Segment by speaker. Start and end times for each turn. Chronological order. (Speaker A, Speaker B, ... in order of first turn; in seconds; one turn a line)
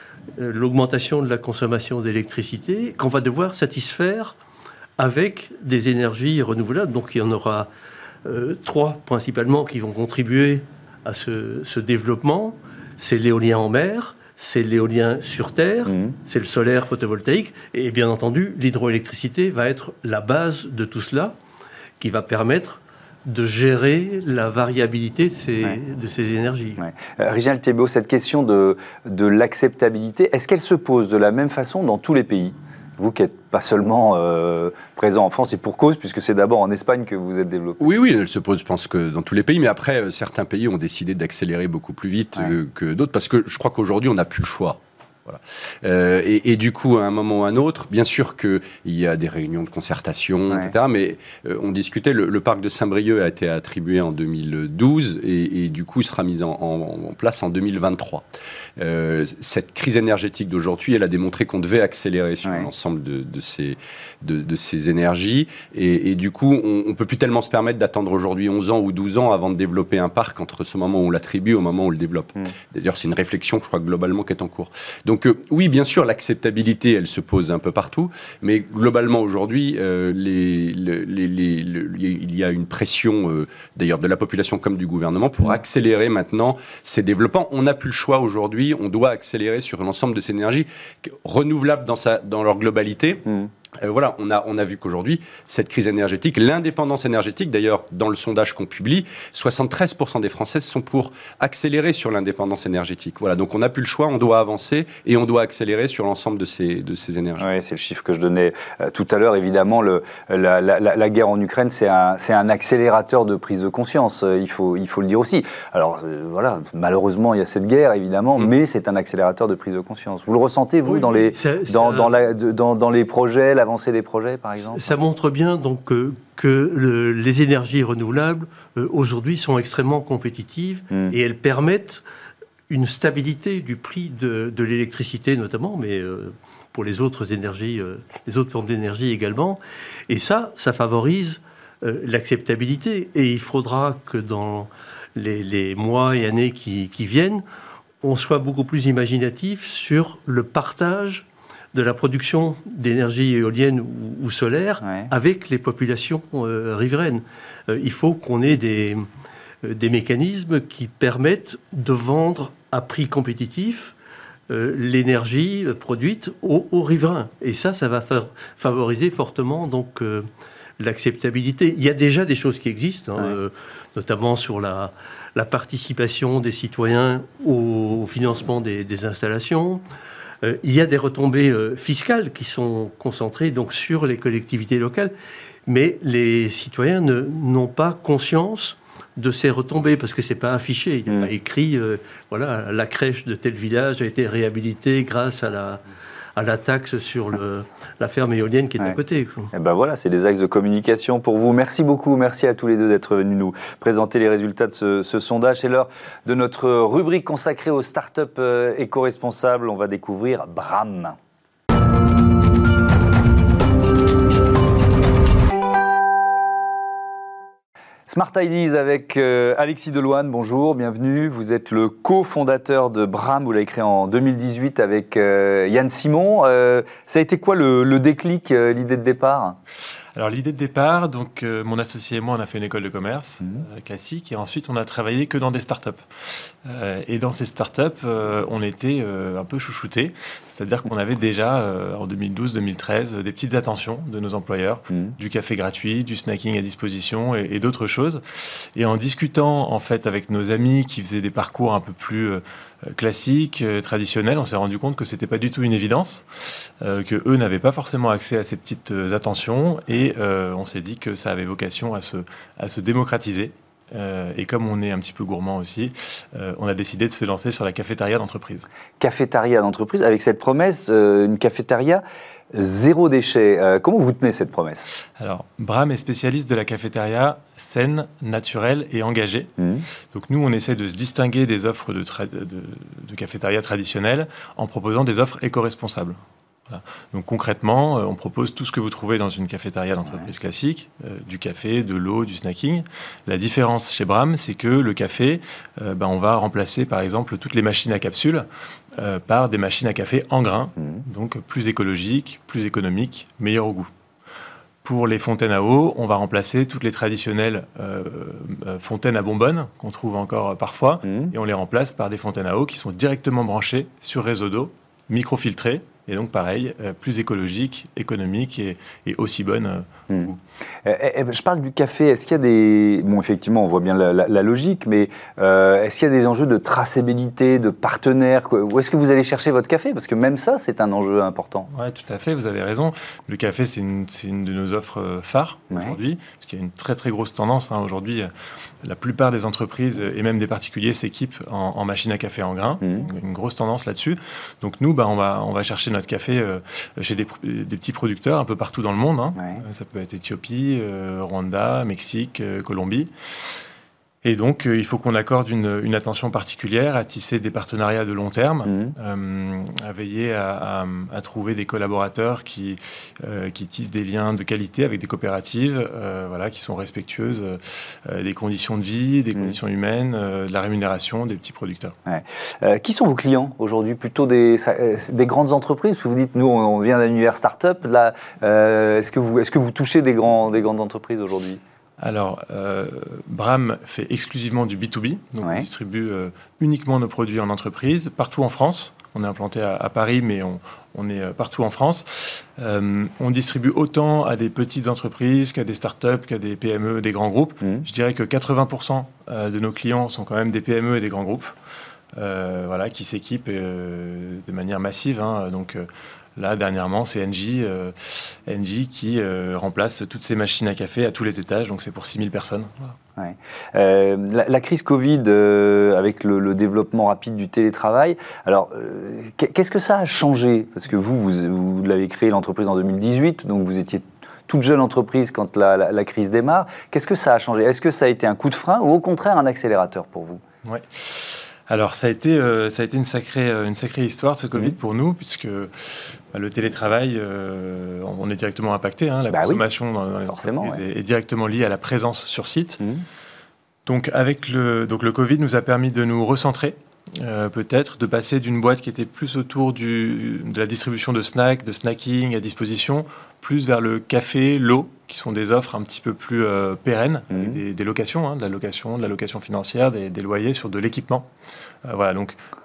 Speaker A: 0.4-4.3
Speaker A: 5.0-7.7
Speaker A: 8.2-21.3
Speaker B: 15.8-16.1
Speaker A: 22.0-26.8
Speaker B: 26.8-37.8
Speaker C: 37.8-58.2
Speaker C: 58.8-93.2
Speaker C: 93.8-107.5
Speaker B: 107.4-125.0
Speaker A: 120.8-122.2
Speaker A: 124.7-132.0
Speaker A: 132.7-147.4
Speaker A: 148.0-159.1
Speaker B: 154.8-155.1
Speaker A: 159.6-163.9
Speaker A: 164.5-170.3
Speaker A: 170.8-179.8
Speaker A: 180.4-185.1
Speaker A: 185.7-195.8
Speaker A: 196.3-199.5
Speaker B: 199.5-211.2
Speaker B: 218.1-229.6
Speaker D: 230.1-268.7
Speaker B: 269.0-274.9
Speaker D: 275.2-279.5
Speaker B: 279.6-279.8
Speaker D: 280.1-286.2
Speaker D: 286.7-298.4
Speaker D: 299.0-303.9
Speaker D: 304.8-320.4
Speaker B: 311.1-311.3
Speaker B: 320.8-331.7
Speaker D: 331.7-338.3
Speaker B: 335.7-336.0
Speaker D: 338.8-353.6
Speaker B: 342.8-343.1
Speaker B: 349.4-349.6
Speaker D: 354.2-371.9
Speaker B: 358.6-358.9
Speaker B: 372.1-381.6
Speaker D: 382.0-401.5
Speaker D: 402.1-412.9
Speaker B: 413.2-430.4
Speaker D: 430.6-442.8
Speaker B: 439.3-439.6
Speaker B: 440.3-440.8
Speaker D: 443.9-461.3
Speaker D: 461.9-462.4